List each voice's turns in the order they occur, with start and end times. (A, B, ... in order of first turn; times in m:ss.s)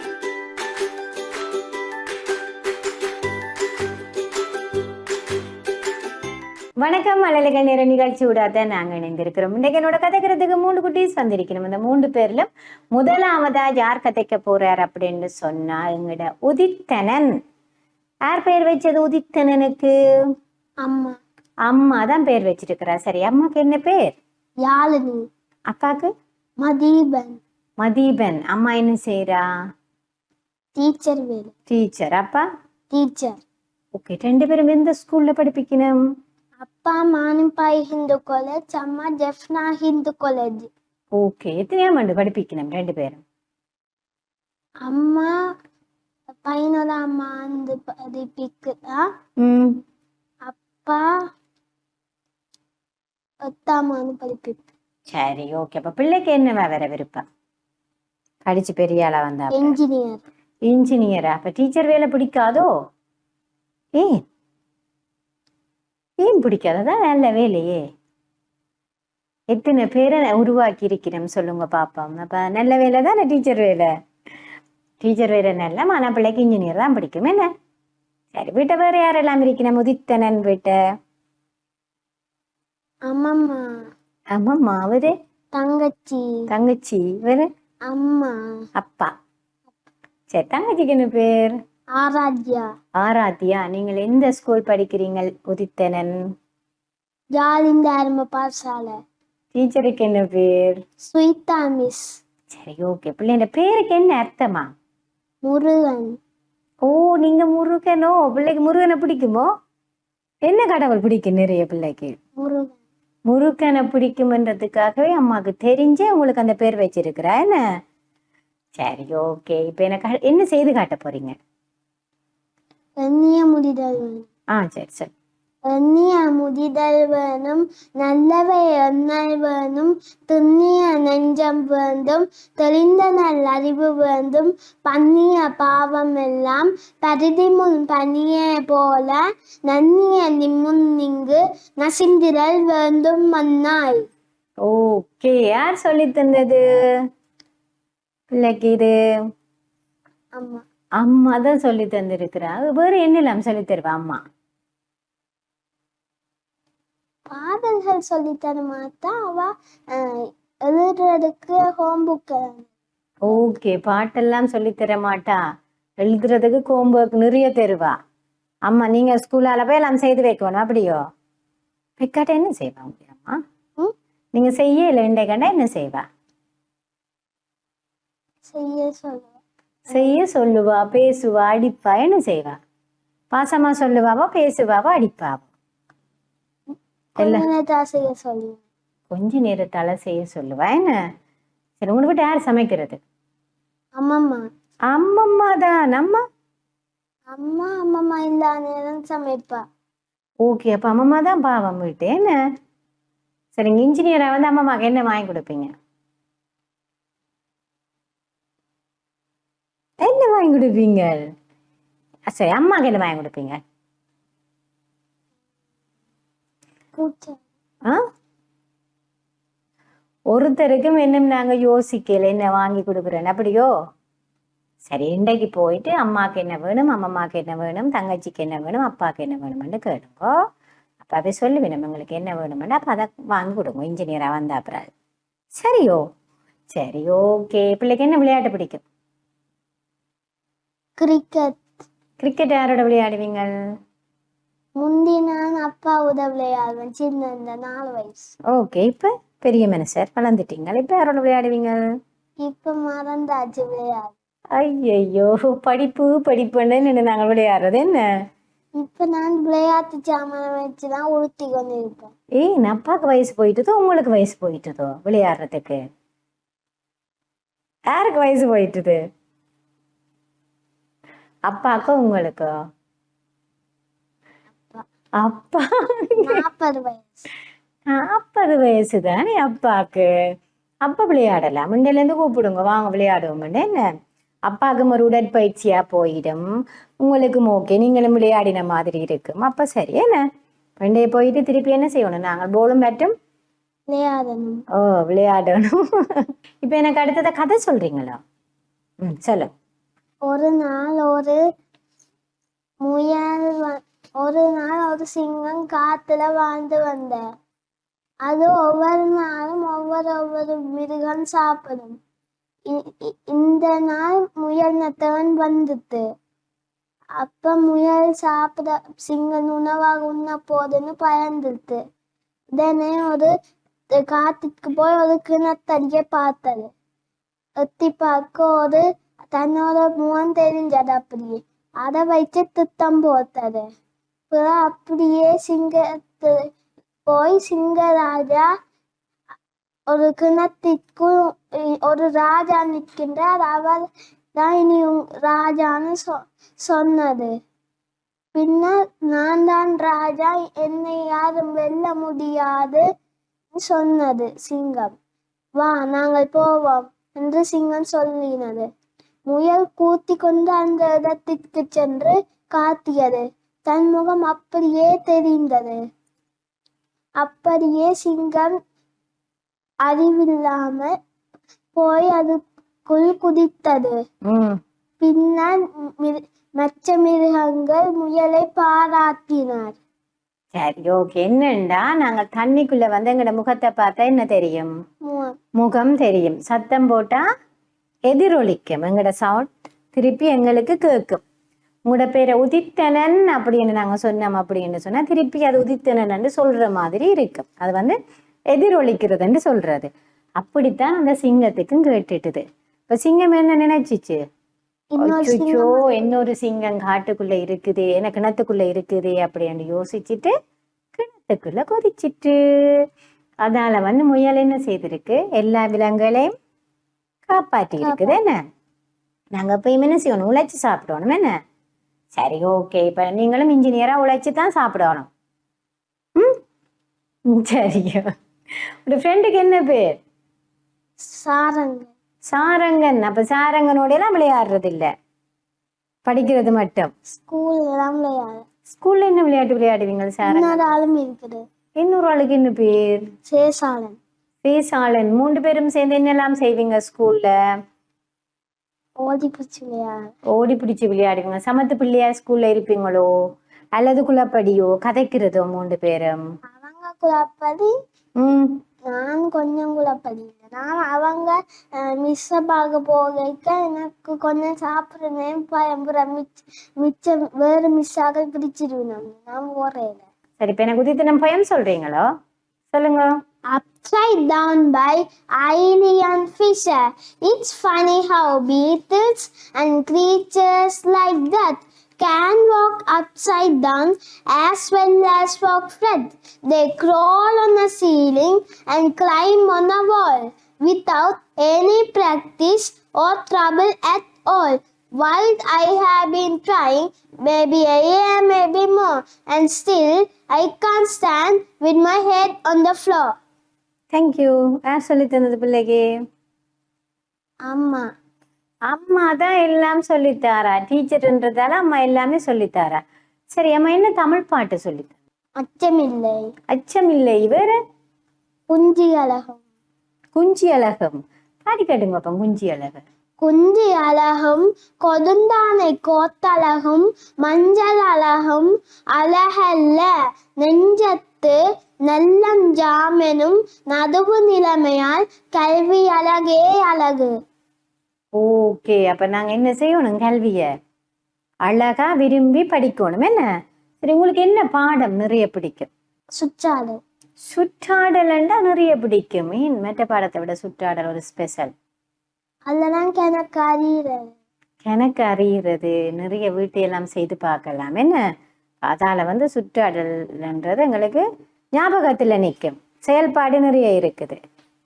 0:06.8-0:17.4 A
0:18.3-0:19.9 A
0:20.8-0:21.2 B
0:21.6-0:24.2 A
0:24.6-0:25.3 B
0:25.7-0:26.1 A
0:26.6-0:27.4 B
0:27.8-0:29.4 A
0:30.8-0:31.5 B
0:31.7-0:32.4 A
0:32.9-0:33.4 B
0:33.9-0:35.9 A
0:36.6-0:40.7 B
0:41.2-0:43.2 A
0:44.8-0:45.3 B
0:46.3-0:49.1 B
0:49.4-0:49.8 A
0:50.4-0:51.1 B
0:53.4-0:54.6 B
0:55.1-0:57.2 A
0:58.4-0:59.7 A
0:59.5-1:00.2 B
1:00.7-1:02.7 A
1:04.0-1:04.2 A
1:06.2-1:07.8 A
1:09.5-1:13.9 A
1:15.0-1:17.5 A
1:18.3-1:20.8 A
1:23.1-1:23.6 B
1:24.3-1:25.1 A
1:25.5-1:26.3 B
1:26.5-1:27.5 A
1:27.9-1:28.4 B
1:28.8-1:29.1 A
1:30.3-1:31.6 A
1:32.0-1:32.7 B
1:33.0-1:36.2 A
1:37.3-1:39.0 B
1:39.5-1:40.8 A
1:41.0-1:42.1 B
1:42.5-1:44.7 A
1:45.4-1:46.2 B
1:46.8-1:49.5 A
1:50.4-1:52.2 A
1:52.4-1:52.8 B
1:53.3-1:57.6 A
1:58.8-2:01.4 A
2:03.0-2:04.3 B
2:04.5-2:05.1 A
2:05.7-2:24.0 B
2:24.6-2:26.8 A
2:28.3-2:28.9 A
2:30.4-2:30.6 B
2:31.0-2:34.2 A
2:37.3-2:42.7 B
2:43.2-2:45.4 A
2:46.0-2:48.0 A
2:48.7-2:51.0 A
2:52.0-2:53.4 A
2:54.4-2:56.0 A
2:58.5-2:59.4 B
2:59.9-3:02.6 A
3:03.3-3:05.4 A
3:07.2-3:08.6 B
3:07.2-3:07.4 A
3:09.1-3:10.9 A
3:11.8-3:13.0 A
3:14.0-3:14.4 B
3:14.9-3:16.2 A
3:17.3-3:19.6 B
3:20.4-3:22.3 A
3:23.5-3:25.7 A
3:30.0-3:31.2 A
3:32.3-3:33.6 A
3:36.9-3:37.4 B
3:40.3-3:43.7 A
3:44.8-3:50.3 A
3:51.0-3:54.9 A
3:55.6-3:56.0 A
3:56.7-3:58.8 A
4:01.0-4:01.7 B
4:02.2-4:03.5 A
4:04.8-4:08.3 B
4:08.5-4:11.8 A
4:12.4-4:14.1 B
4:14.5-4:18.0 A
4:18.8-4:22.1 B
4:22.4-4:25.8 A
4:27.9-4:29.0 A
4:31.5-4:32.5 A
4:35.2-4:36.4 A
4:36.2-4:37.2 B
4:37.9-4:40.1 A
4:40.8-4:43.8 A
4:44.5-4:46.4 A
4:47.0-4:50.2 A
4:50.8-4:53.1 A
4:53.9-4:54.6 B
4:54.7-4:58.2 A
4:59.0-4:59.5 A
5:00.2-5:01.4 B
5:02.8-5:07.2 B
5:08.2-5:12.0 B
5:12.7-5:16.0 B
5:17.2-5:21.8 B
5:22.5-5:23.3 B
5:23.9-5:26.7 B
5:27.6-5:33.6 B
5:34.3-5:36.5 B
5:37.1-5:38.5 B
5:39.9-5:47.3 B
5:48.3-5:52.8 B
5:53.6-5:55.0 B
5:55.6-5:58.7 B
5:59.3-6:05.8 B
6:07.2-6:08.6 B
6:09.8-6:10.9 B
6:11.7-6:14.0 B
6:14.2-6:14.6 A
6:15.0-6:19.8 B
6:20.5-6:24.7 A
6:25.0-6:25.4 B
6:25.5-6:27.2 A
6:28.1-6:31.2 A
6:31.9-6:38.0 A
6:38.5-6:44.2 A
6:44.9-6:46.2 B
6:45.0-6:50.3 A
6:50.9-6:52.8 A
6:53.4-6:56.3 A
6:57.3-6:58.4 A
6:57.8-6:58.1 B
6:59.3-7:01.4 A
7:02.1-7:05.1 A
7:06.2-7:06.4 A
7:07.3-7:08.1 A
7:08.8-7:10.0 A
7:11.0-7:11.9 B
7:12.3-7:14.9 A
7:16.0-7:16.9 A
7:17.1-7:18.4 B
7:18.7-7:20.7 A
7:20.2-7:21.4 B
7:21.8-7:23.0 A
7:23.3-7:24.0 B
7:24.4-7:27.3 A
7:29.0-7:30.1 B
7:30.3-7:33.1 A
7:33.8-7:36.2 A
7:36.5-7:37.7 B
7:38.2-7:38.6 A
7:38.9-7:50.0 B
7:50.4-7:52.1 A
7:52.7-7:53.2 A
7:53.5-8:23.1 B
8:23.9-8:25.8 A
8:27.5-8:27.8 B
8:28.7-8:32.8 A
8:33.3-8:34.9 A
8:35.4-8:36.3 B
8:36.5-8:37.6 A
8:38.5-8:39.4 B
8:40.1-8:42.8 A
8:43.2-8:57.1 B
8:58.2-9:00.5 A
9:01.4-9:03.2 A
9:03.8-9:05.7 A
9:06.2-9:06.8 B
9:07.3-9:11.5 A
9:12.5-9:14.1 B
9:14.6-9:18.0 A
9:18.6-9:21.0 A
9:21.6-9:24.2 A